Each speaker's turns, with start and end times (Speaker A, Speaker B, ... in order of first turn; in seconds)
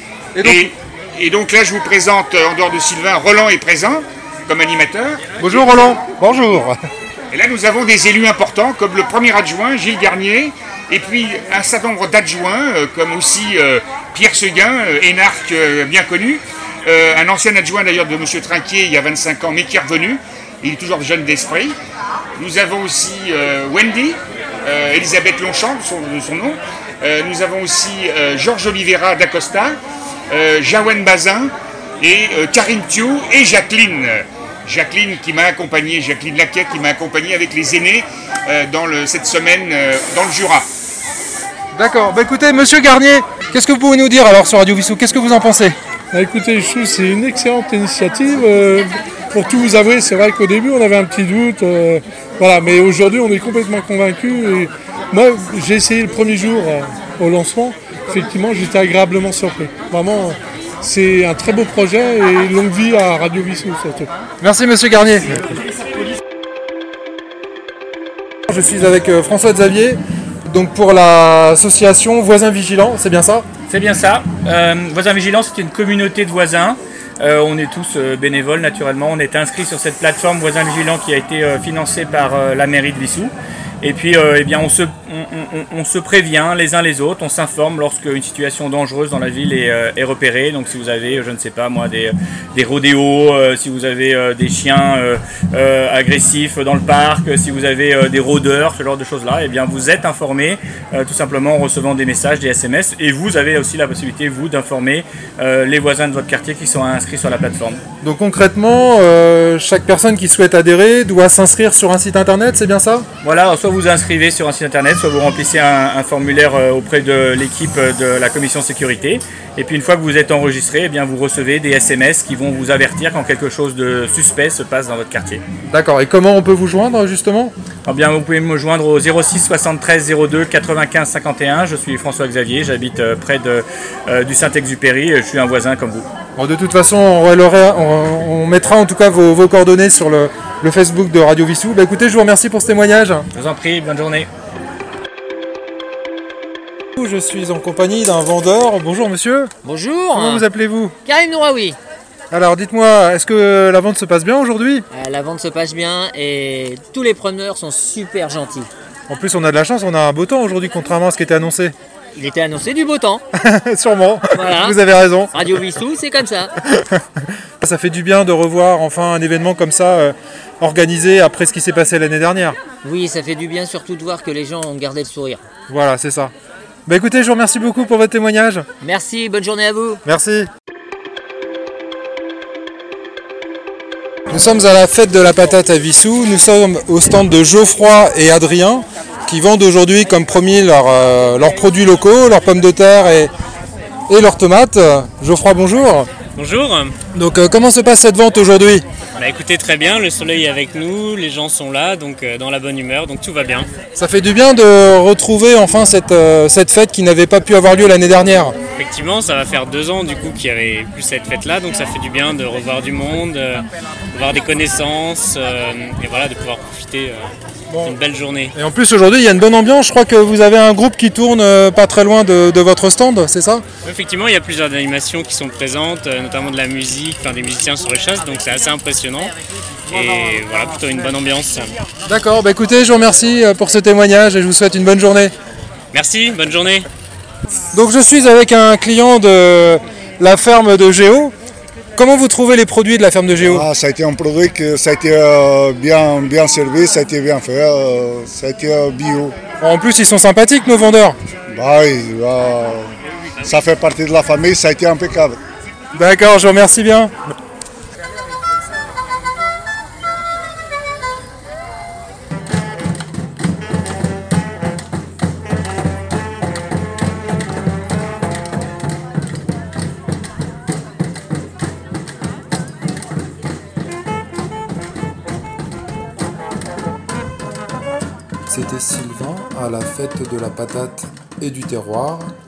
Speaker A: 0.3-0.7, 5.4-6.8, 41.7-45.8, 64.4-65.6, 68.5-73.5, 108.0-113.0, 125.7-127.5, 136.4-143.3, 147.0-149.5, 150.1-150.9, 152.3-154.8, 159.1-161.7, 163.4-165.3, 166.7-167.0, 167.6-172.6, 175.7-176.3, 176.9-178.7, 180.0-180.5, 184.3-193.3, 194.1-196.1, 197.1-198.8, 203.9-208.5, 217.7-217.9, 218.5-223.6, 232.1-235.3, 237.7-241.3, 241.9-243.7, 249.6-251.2, 255.9-257.1, 278.5-282.3
Speaker B: 0.4-5.3, 7.3-21.8, 22.4-29.8, 30.3-40.7
Speaker C: 46.1-64.1
Speaker D: 73.7-107.8, 113.2-125.4, 127.8-136.1, 143.3-144.3
Speaker E: 149.6-150.4, 151.0-151.8, 154.9-158.7, 162.1-163.2, 164.3-164.8, 165.3-166.5, 172.8-175.4, 178.8-180.0
Speaker F: 196.4-196.9, 199.2-203.7, 208.8-213.6, 214.1-217.2, 217.8-218.5, 223.8-229.3, 229.9-231.6, 235.9-236.8
Speaker G: 243.4-249.3, 251.5-252.9, 253.4-255.4